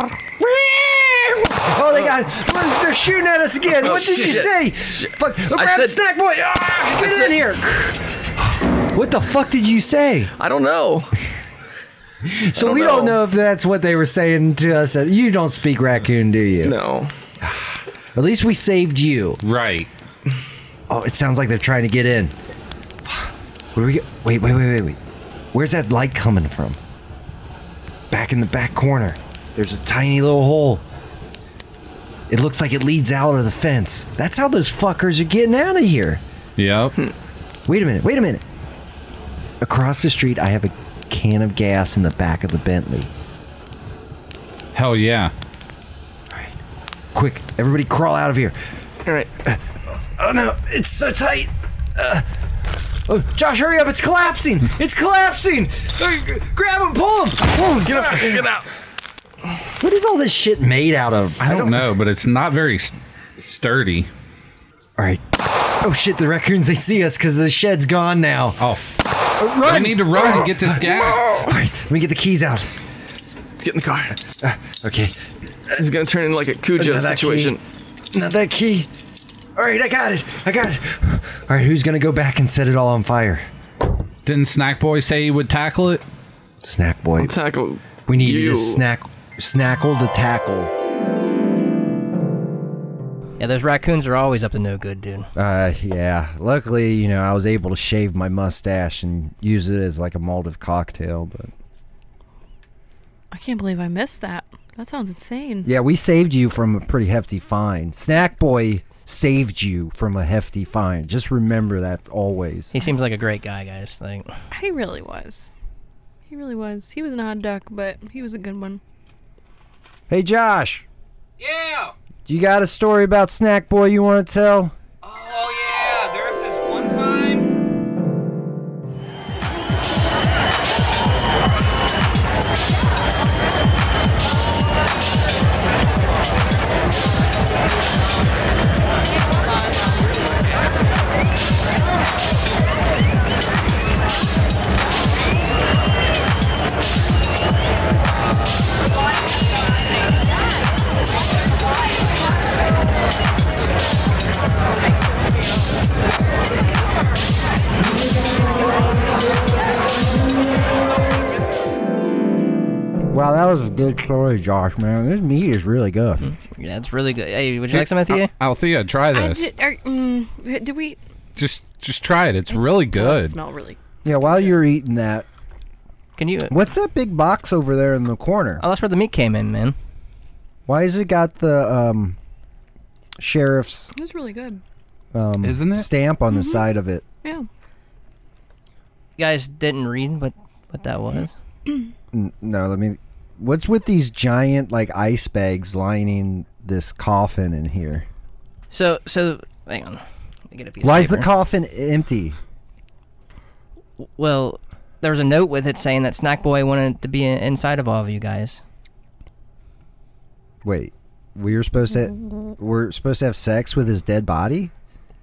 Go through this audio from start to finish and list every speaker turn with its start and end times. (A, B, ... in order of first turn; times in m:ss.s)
0:00.4-0:10.3 A
0:03.7-0:06.0 B
0:06.9-0:07.4 B
0:10.4-0:11.2 B
0:12.2-0:16.8 A
0:12.6-0:13.2 B
0:16.6-0:17.1 B
0:17.4-0:19.4 A
0:19.4-0:19.9 C
0:20.9-0:22.4 A
0:23.0-0:25.0 A
0:25.5-0:26.8 A
0:28.1-0:30.8 A
0:32.3-0:36.2 A
0:36.6-0:37.0 C
0:37.7-0:38.4 A
0:39.6-0:43.1 A
0:44.7-0:45.3 C
0:47.1-0:48.6 A
0:49.4-0:52.3 A
0:53.0-0:58.5 A
0:57.8-0:58.7 B
0:59.7-1:01.9 A
1:01.4-1:04.1 C
1:05.0-1:08.6 A
1:08.6-1:11.5 C
1:09.4-1:12.7 A
1:13.6-1:14.2 B
1:14.3-1:15.2 A
1:15.7-1:17.6 B
1:16.8-1:17.6 A
1:18.1-1:18.9 A
1:19.6-1:23.4 A
1:24.3-1:26.0 C
1:26.6-1:27.4 A
1:27.2-1:28.8 B
1:28.1-1:30.7 A
1:33.4-1:35.3 D
1:35.4-1:41.5 A
1:43.3-1:45.7 E
1:45.6-1:52.7 A
1:52.7-1:54.3 D
1:54.5-1:55.5 E
1:56.3-1:58.8 E
2:00.1-2:00.8 A
2:01.4-2:01.9 F
2:02.3-2:04.8 A
2:05.0-2:07.5 F
2:43.1-2:46.2 A
2:46.2-2:48.3 D
2:47.7-2:49.5 C
2:49.1-2:51.0 E
2:51.4-2:53.4 C
2:52.5-2:54.5 E
2:54.0-2:55.3 A
2:56.2-2:56.5 D
2:56.5-2:58.6 A
2:58.6-2:59.8 D
3:00.7-3:02.2 A
3:03.2-3:03.9 A
3:03.9-3:04.6 E
3:05.1-3:07.0 A
3:05.4-3:05.9 C
3:06.3-3:06.6 E
3:09.2-3:11.3 D
3:12.1-3:18.1 A
3:18.7-3:21.3 D
3:20.8-3:22.4 A
3:24.0-3:28.6 D
3:30.6-3:34.7 A